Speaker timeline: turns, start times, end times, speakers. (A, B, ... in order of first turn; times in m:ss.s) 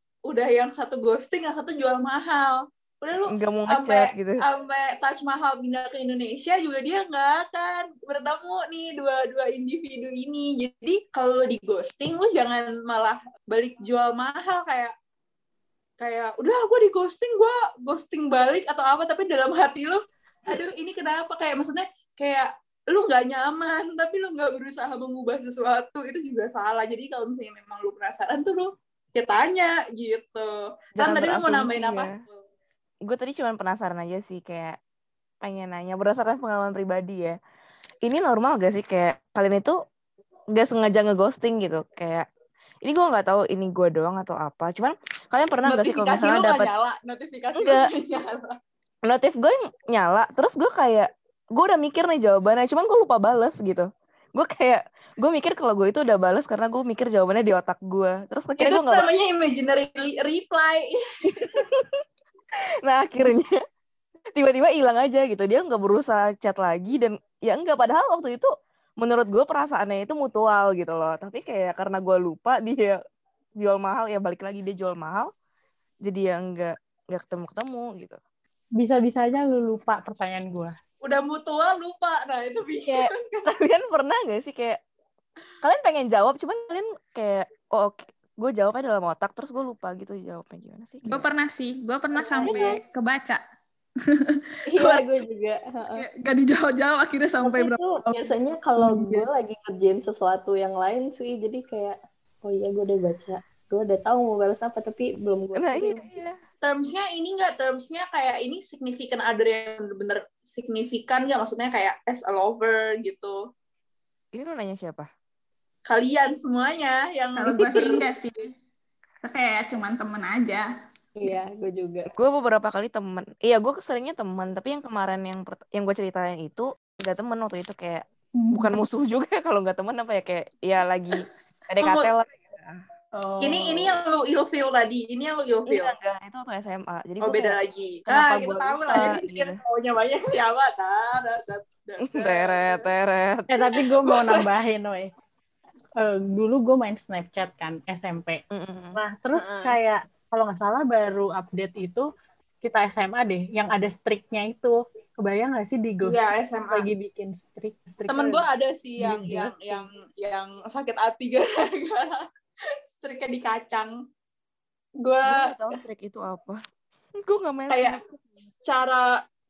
0:00.3-0:14.9 A
0:03.3-0:04.4 B
0:16.0-0:32.4 A
0:31.0-0:32.2 B
0:33.0-0:34.8 B
0:35.4-0:37.4 B
0:38.0-0:39.8 B
0:40.6-0:42.2 B
0:42.8-0:46.7 B
0:45.7-0:48.5 A
0:47.6-0:47.8 B
0:49.1-0:59.1 B
0:58.6-1:01.6 A
1:01.2-1:02.0 B
1:02.8-1:03.6 B
1:04.4-1:13.0 B
1:13.6-1:15.3 B
1:16.0-1:18.2 B
1:18.8-1:20.7 C
1:21.0-1:23.5 A
1:22.9-1:24.8 B
1:25.6-1:31.3 B
1:31.1-1:33.4 D
1:32.4-1:32.8 B
1:34.1-1:35.0 D
1:34.7-1:36.0 E
1:35.9-1:38.3 D
1:37.4-1:46.0 E
1:38.8-1:39.2 C
1:45.6-1:46.4 B
1:46.6-1:53.4 A
1:54.3-1:55.1 B
1:55.9-1:58.0 A
1:57.4-1:58.5 D
1:59.2-2:00.6 D
2:01.2-2:02.1 E
2:02.1-2:12.8 B
2:08.4-2:08.8 D
2:11.8-2:12.1 A
2:13.2-2:13.8 D
2:13.4-2:15.9 A
2:15.7-2:19.6 B
2:17.2-2:22.9 A
2:22.1-2:23.5 B
2:23.5-2:25.1 C
2:24.1-2:24.4 A
2:26.0-2:28.4 C
2:28.5-2:29.0 B
2:29.0-2:32.1 C
2:29.4-2:29.8 A
2:32.6-2:38.4 C
2:36.0-2:36.9 A
2:38.1-2:42.2 A
2:39.0-2:39.9 B
2:42.9-2:44.0 A
2:45.0-2:45.5 A
2:45.2-2:46.6 B
2:47.2-2:48.3 B
2:47.7-2:48.0 A
2:48.7-2:49.0 A